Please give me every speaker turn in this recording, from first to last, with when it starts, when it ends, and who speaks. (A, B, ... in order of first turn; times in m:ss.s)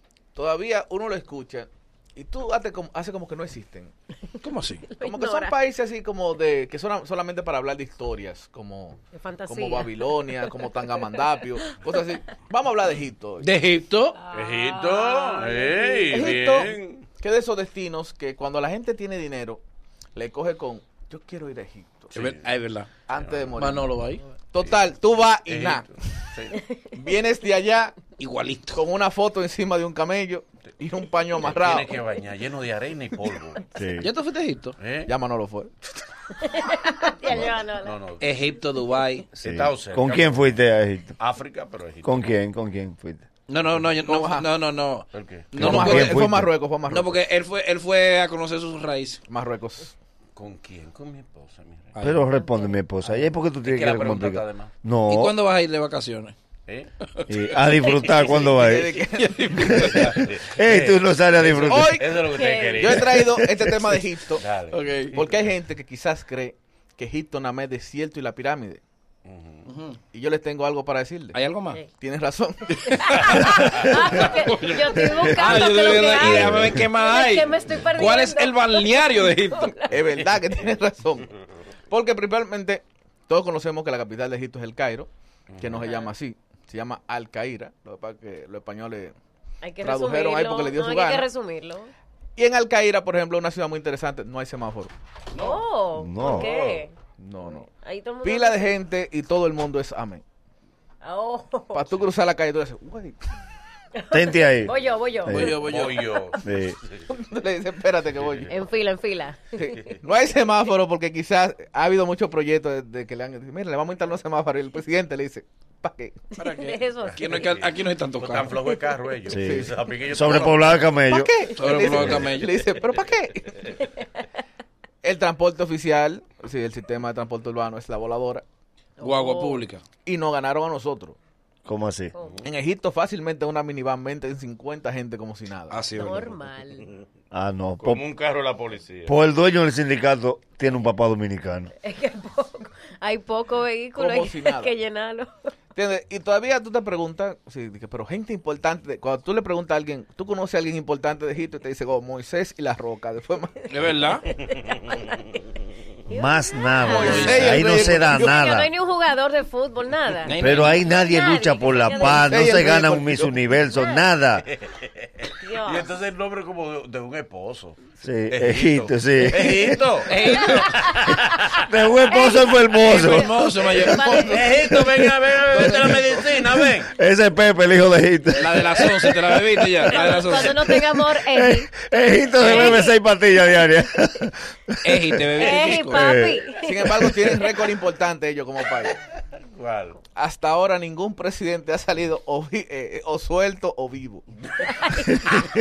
0:00.3-0:03.9 A
0:04.4-0:04.9 B
0:04.9-0:05.6 C
0:05.0-0:13.5 A
0:09.1-0:12.3 C
0:13.4-0:14.2 B
0:14.2-0:16.3 C
0:14.3-0:17.0 D
0:16.0-0:19.6 A
0:20.2-0:22.1 A
0:22.1-0:22.5 D
0:22.1-0:22.9 B
0:23.1-0:24.0 A
0:23.1-0:23.5 D
0:23.6-0:24.2 B
0:24.5-0:25.9 A
0:24.6-0:26.6 D
0:26.6-0:26.9 C
0:26.9-0:28.0 A
0:28.2-0:28.8 B
0:28.7-0:31.9 A
0:31.4-0:33.6 D
0:33.7-0:34.1 E
0:34.0-0:34.8 B
0:34.8-0:35.1 D
0:35.0-0:35.7 A
0:36.4-0:37.9 C
0:37.8-0:38.3 D
0:38.2-0:39.3 B
0:39.4-0:40.6 D
0:39.4-0:41.1 E
0:41.2-0:42.3 D
0:42.0-0:43.2 E
0:43.5-0:46.3 B
0:44.0-0:44.5 A
0:45.1-0:45.5 D
0:45.6-0:46.5 E
0:45.6-0:47.2 A
0:46.9-0:49.2 B
0:49.3-0:49.9 A
0:50.4-0:52.0 D
0:51.9-0:52.3 B
0:52.0-0:55.4 E
0:52.4-0:52.8 C
0:53.6-0:54.7 D
0:55.1-0:56.3 B
0:57.0-0:58.3 B
0:57.3-0:59.0 E
0:58.2-0:59.8 A
0:59.0-1:00.2 B
0:59.6-1:02.0 E
0:59.8-1:03.3 D
1:01.6-1:04.4 A
1:02.2-1:03.0 C
1:03.0-1:03.9 E
1:04.4-1:05.5 D
1:04.7-1:05.2 B
1:05.1-1:08.8 A
1:09.2-1:09.6 D
1:09.6-1:10.0 B
1:10.1-1:11.4 A
1:11.3-1:11.8 B
1:11.9-1:13.4 A
1:12.7-1:20.0 C
1:12.9-1:14.8 B
1:13.2-1:13.8 D
1:15.0-1:15.5 E
1:15.4-1:19.7 B
1:16.1-1:16.8 E
1:19.9-1:21.3 A
1:20.1-1:20.6 D
1:21.9-1:29.2 A
1:25.5-1:25.9 D
1:25.7-1:26.1 C
1:29.6-1:31.9 C
1:29.8-1:31.3 A
1:32.4-1:34.9 A
1:35.4-1:36.9 C
1:36.0-1:36.5 E
1:36.2-1:36.8 D
1:37.2-1:37.7 A
1:37.7-1:38.7 C
1:38.2-1:40.2 A
1:41.0-1:41.9 C
1:41.7-1:43.2 A
1:43.9-1:46.3 C
1:44.1-1:44.7 E
1:45.2-1:45.6 E
1:45.3-1:46.1 B
1:45.6-1:47.1 D
1:46.4-1:46.8 E
1:47.1-1:48.6 A
1:48.2-1:48.5 D
1:48.5-1:49.6 C
1:49.6-1:56.2 A
1:49.7-1:50.0 D
1:56.4-1:58.5 B
1:56.4-1:57.5 C
1:57.0-2:00.8 D
1:59.3-1:59.7 A
1:59.3-2:02.3 E
2:01.1-2:03.8 A
2:01.5-2:02.6 B
2:03.8-2:04.1 C
2:05.0-2:08.4 A
2:09.0-2:09.7 C
2:09.0-2:09.8 B
2:10.0-2:11.2 A
2:11.6-2:12.1 E
2:12.1-2:12.4 C
2:12.4-2:15.8 A
2:15.7-2:16.3 B
2:15.9-2:16.9 C
2:17.3-2:18.0 E
2:17.8-2:19.2 D
2:19.0-2:21.7 E
2:21.8-2:25.3 C
2:23.9-2:24.7 A
2:25.7-2:33.6 A
2:33.7-2:34.2 B
2:34.2-2:35.5 C
2:36.1-2:42.5 C
2:36.1-2:38.7 E
2:36.9-2:38.4 A
2:36.9-2:37.5 B
2:40.2-2:40.8 B
2:40.4-2:44.4 E
2:41.9-2:43.4 A
2:43.7-2:44.0 C
2:44.4-2:51.7 D
2:45.4-2:45.9 C
2:48.0-2:49.8 E
2:50.0-2:50.8 B
2:50.3-2:51.1 C
2:51.6-2:53.8 E
2:52.1-2:54.8 C
2:52.8-2:54.2 B
2:53.8-2:56.3 A
2:54.2-2:56.9 D
2:55.5-2:55.8 B
2:56.5-2:59.4 E
2:58.3-3:00.6 B
2:59.8-3:01.7 C
3:00.6-3:07.1 E
3:02.4-3:02.9 C
3:02.4-3:02.8 B
3:04.8-3:06.0 B
3:05.4-3:07.5 C
3:06.6-3:09.0 A
3:09.5-3:10.0 D
3:10.1-3:14.7 A
3:14.6-3:15.4 C